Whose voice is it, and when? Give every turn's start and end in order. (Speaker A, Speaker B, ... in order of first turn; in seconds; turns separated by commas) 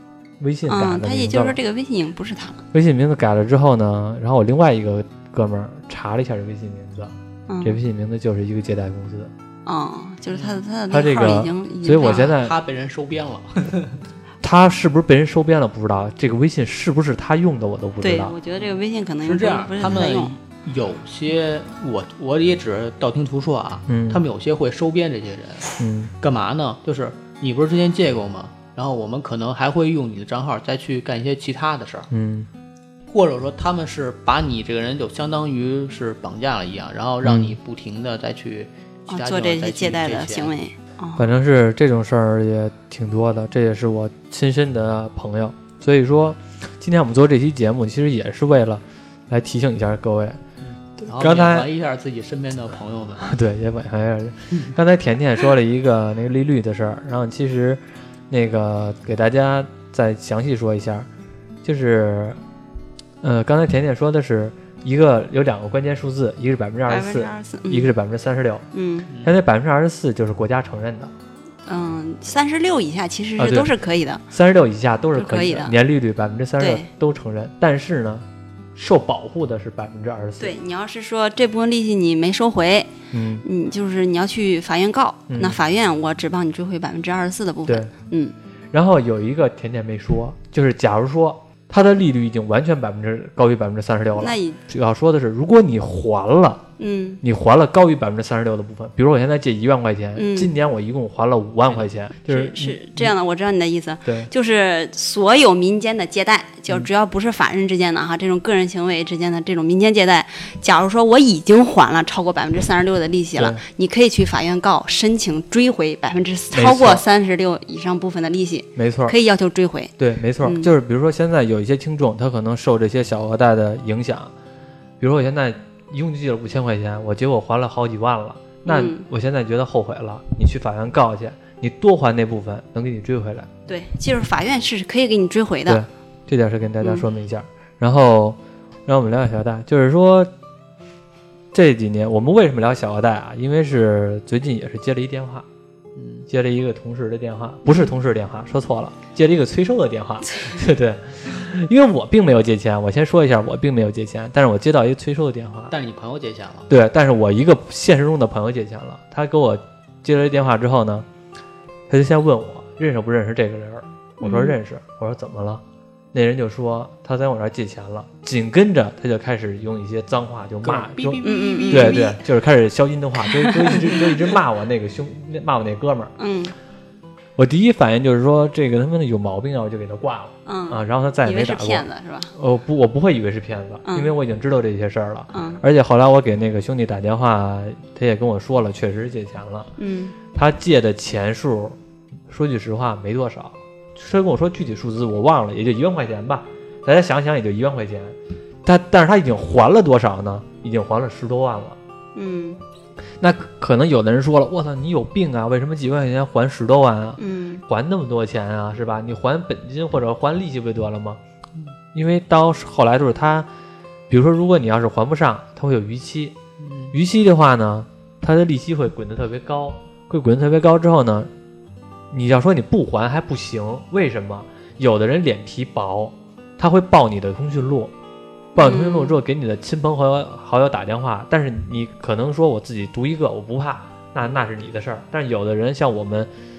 Speaker A: 0.4-1.6, Speaker B: 0.7-2.6, Speaker A: 2.7-9.3, Speaker B: 7.5-7.8, Speaker B: 9.7-12.3, Speaker C: 10.3-10.6, Speaker A: 10.9-12.6, Speaker C: 12.0-14.0, Speaker A: 14.4-18.3, Speaker B: 18.0-20.4, Speaker C: 19.2-32.1, Speaker A: 23.9-24.2, Speaker A: 25.8-26.1, Speaker A: 32.1-32.5, Speaker C: 33.1-40.5, Speaker A: 37.2-37.6, Speaker B: 39.1-41.2, Speaker A: 41.2-50.4, Speaker C: 50.6-53.3, Speaker A: 51.0-51.7, Speaker A: 53.2-61.1, Speaker A: 61.6-62.4, Speaker A: 63.2-68.6, Speaker B: 66.9-67.9, Speaker B: 68.7-69.1, Speaker C: 69.1-69.3, Speaker A: 69.2-71.1, Speaker B: 71.7-74.2, Speaker A: 73.4-73.7, Speaker A: 74.3-80.5, Speaker B: 75.2-75.7, Speaker B: 76.6-76.9, Speaker B: 80.4-88.3, Speaker A: 83.1-83.4, Speaker A: 85.3-85.6, Speaker A: 87.7-87.9, Speaker A: 88.7-96.6, Speaker B: 94.2-94.6, Speaker B: 96.8-97.2, Speaker A: 97.2-103.1, Speaker B: 100.2-100.5, Speaker B: 102.3-120.7, Speaker A: 104.0-104.3, Speaker A: 113.3-113.6, Speaker A: 116.5-117.0, Speaker A: 118.8-119.2, Speaker A: 120.0-124.3, Speaker A: 125.0-133.5, Speaker B: 128.6-129.1, Speaker B: 133.7-135.8, Speaker A: 135.7-140.3, Speaker A: 141.5-145.4, Speaker C: 145.9-146.2, Speaker A: 146.3-155.7, Speaker C: 155.7-156.7, Speaker A: 156.7-161.1, Speaker A: 161.9-176.1, Speaker B: 164.2-164.6, Speaker C: 170.6-172.1, Speaker B: 171.2-172.2, Speaker B: 173.3-174.1, Speaker B: 176.2-176.5, Speaker A: 177.4-189.7, Speaker B: 180.4-182.3, Speaker B: 183.8-184.1, Speaker B: 185.3-185.6, Speaker B: 189.8-190.2, Speaker A: 190.3-191.8, Speaker A: 192.3-201.8, Speaker B: 202.1-202.6, Speaker A: 203.2-211.2, Speaker B: 207.2-207.6, Speaker A: 211.9-213.5, Speaker A: 214.1-216.3, Speaker C: 216.6-216.9, Speaker A: 216.9-221.3, Speaker A: 222.1-227.9, Speaker B: 228.6-229.2, Speaker A: 228.6-236.3